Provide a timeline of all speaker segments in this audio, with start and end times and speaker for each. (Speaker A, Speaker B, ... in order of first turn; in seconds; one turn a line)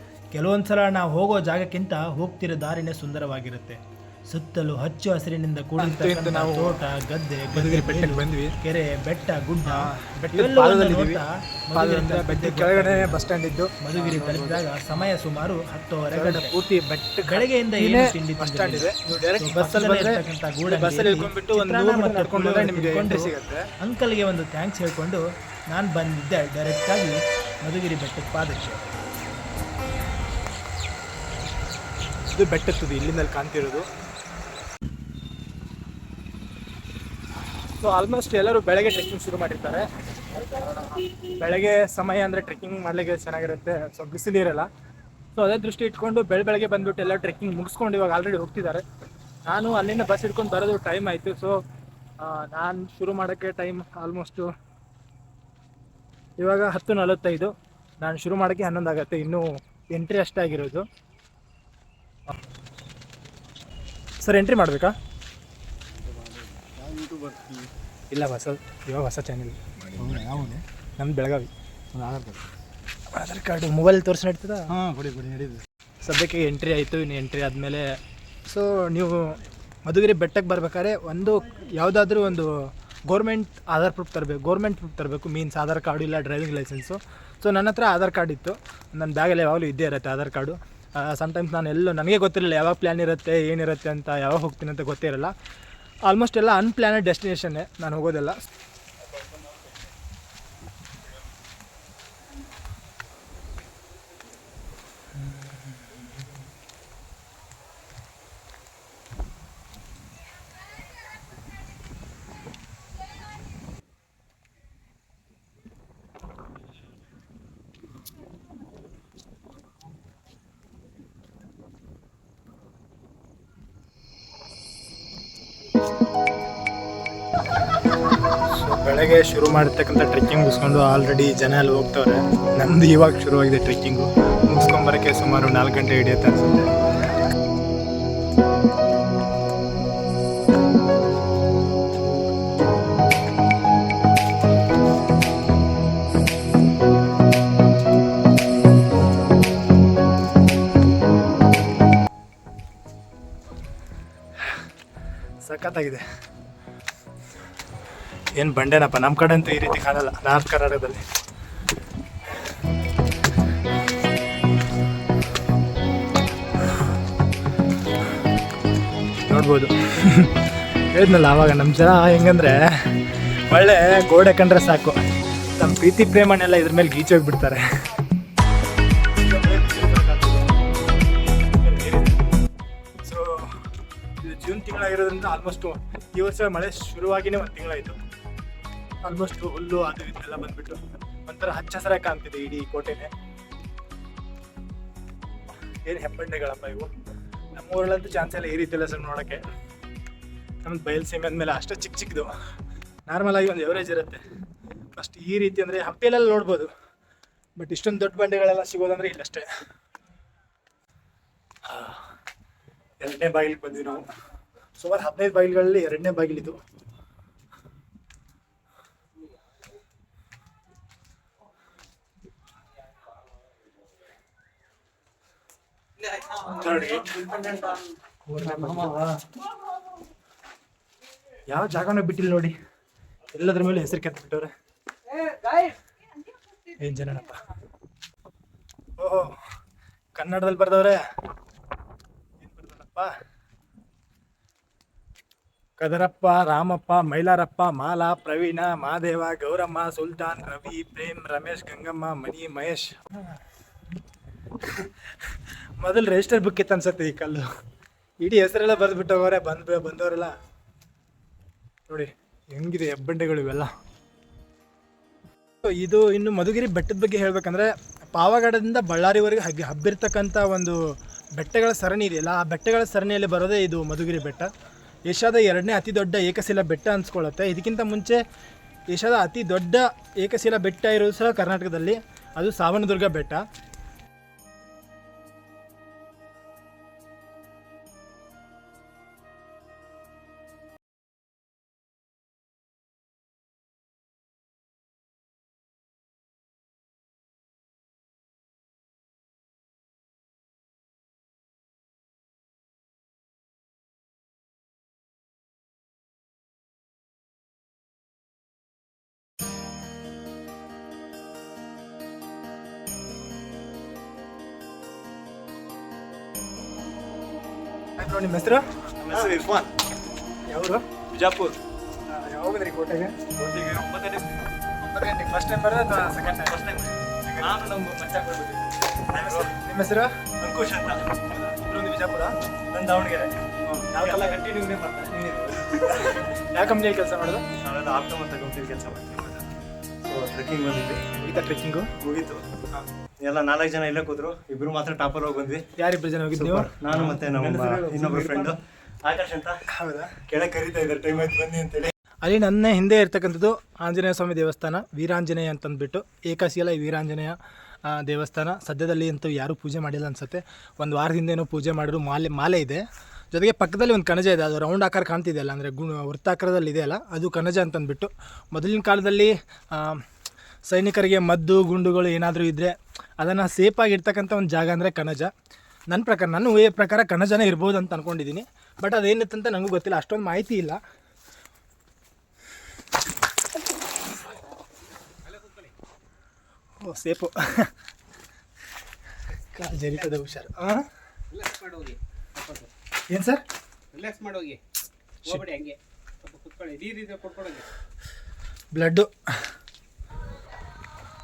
Speaker A: 0.3-13.3
Speaker B: 5.8-6.8
Speaker B: 7.5-8.6
Speaker B: 9.7-11.2
Speaker B: 11.7-14.5
Speaker A: 13.8-16.6
Speaker B: 16.1-23.6
Speaker A: 17.2-28.9
Speaker B: 32.3-33.9
Speaker B: 37.8-39.9
Speaker B: 40.5-44.7
Speaker B: 45.4-48.8
Speaker B: 49.5-51.5
Speaker B: 52.2-54.5
Speaker B: 56.4-60.9
Speaker B: 64.2-65.0
Speaker C: 66.1-67.7
Speaker B: 68.1-71.5
Speaker C: 70.1-70.3
Speaker B: 73.1-74.8
Speaker C: 74.8-75.5
Speaker B: 76.0-77.9
Speaker B: 78.5-82.5
Speaker B: 83.1-95.3
Speaker B: 96.1-98.4
Speaker B: 128.5-136.7
Speaker B: 155.4-156.0
Speaker B: 158.4-161.0
Speaker B: 169.3-170.4
Speaker B: 170.9-175.0
Speaker B: 175.6-177.6
Speaker B: 179.2-180.5
Speaker B: 181.2-182.2
Speaker B: 183.1-183.5
Speaker B: 184.2-188.0
Speaker B: 189.1-193.1
Speaker B: 195.9-196.9
Speaker B: 197.6-199.4
Speaker B: 200.7-202.3
Speaker B: 203.1-204.2
Speaker B: 204.9-206.7
Speaker B: 207.6-209.4
Speaker B: 211.7-212.0
Speaker B: 213.0-214.0
Speaker B: 214.8-216.6
Speaker B: 226.6-227.2
Speaker B: 228.3-229.2
Speaker B: 231.5-232.6
Speaker B: 233.3-234.5
Speaker B: 236.8-237.4
Speaker B: 239.0-239.3
Speaker B: 240.2-241.0
Speaker B: 242.4-243.1
Speaker B: 245.8-253.1
Speaker B: 254.8-257.4
Speaker B: 258.2-260.3
Speaker B: 261.9-263.7
Speaker B: 265.6-270.8
Speaker B: 271.4-274.5
Speaker B: 275.1-278.2
Speaker B: 278.9-283.4
Speaker B: 318.0-318.6
Speaker D: 319.0-319.7
Speaker B: 320.5-320.8
Speaker D: 321.1-321.6
Speaker B: 322.1-323.1
Speaker D: 323.4-324.5
Speaker B: 324.8-326.6
Speaker D: 326.4-329.5
Speaker B: 327.2-327.6
Speaker B: 329.2-330.1
Speaker D: 330.4-331.2
Speaker B: 331.3-332.3
Speaker D: 332.7-336.2
Speaker B: 333.9-334.4
Speaker B: 336.5-337.4
Speaker D: 337.6-339.4
Speaker D: 340.0-341.0
Speaker B: 341.2-341.9
Speaker D: 342.0-342.6
Speaker D: 343.2-345.6
Speaker B: 345.8-348.5
Speaker D: 346.3-349.6
Speaker B: 349.7-350.1
Speaker D: 350.3-351.9
Speaker B: 352.2-370.0
Speaker B: 370.7-375.3
Speaker B: 375.9-380.8
Speaker E: 385.3-385.7
Speaker B: 386.8-387.7
Speaker B: 389.5-390.8
Speaker E: 391.3-392.7
Speaker B: 393.1-393.4
Speaker E: 393.9-394.6
Speaker E: 395.2-397.7
Speaker B: 398.7-399.1